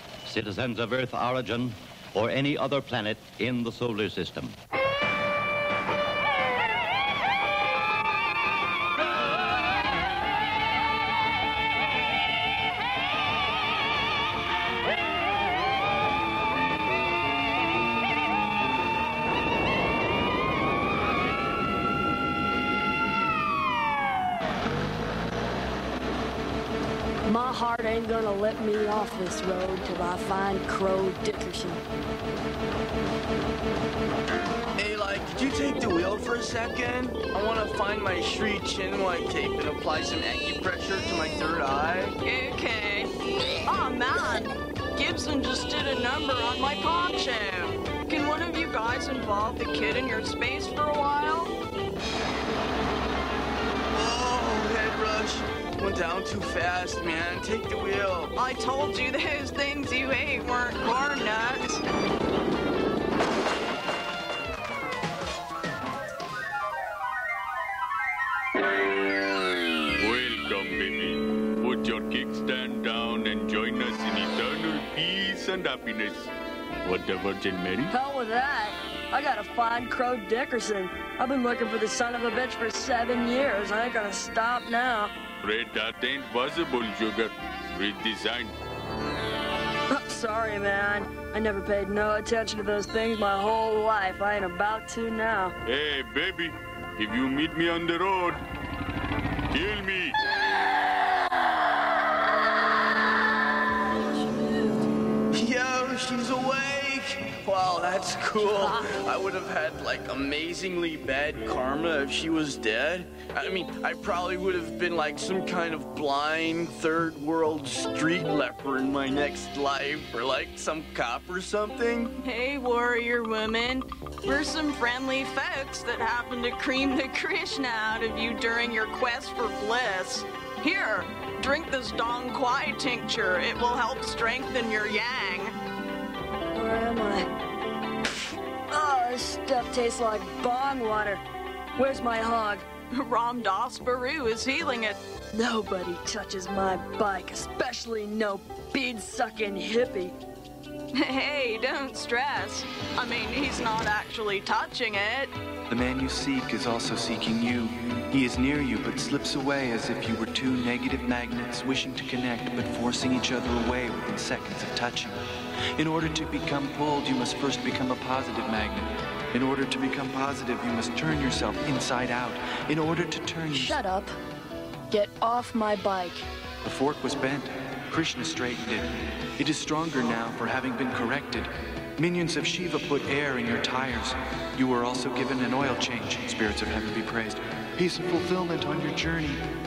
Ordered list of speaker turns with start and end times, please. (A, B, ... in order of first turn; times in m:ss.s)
0:00.3-0:04.6 A
0:27.3-0:31.8 B
0:34.8-0:42.1 C
0:42.2-0:43.1 D
0:43.7-0:51.5 D
0:53.9-0:58.3 C
0:58.4-1:01.8 D
1:10.0-1:16.3 E
1:16.8-1:17.9 E
1:17.9-1:25.1 B
1:25.4-1:28.5 E
1:29.9-1:35.6 B
1:35.7-1:38.4 E
1:39.5-1:40.1 E
1:44.1-1:44.9 B
1:45.3-2:02.1 C
2:02.2-2:15.6 D
2:16.6-2:17.3 B
2:18.7-2:21.2 B
2:21.8-2:22.6 B
2:23.0-2:25.0 D
2:25.3-2:30.1 B
2:31.0-2:35.3 D
2:35.7-2:45.2 F
2:45.8-2:53.8 F
2:53.5-2:54.2 B
2:54.9-2:56.3 B
2:56.6-3:09.4 F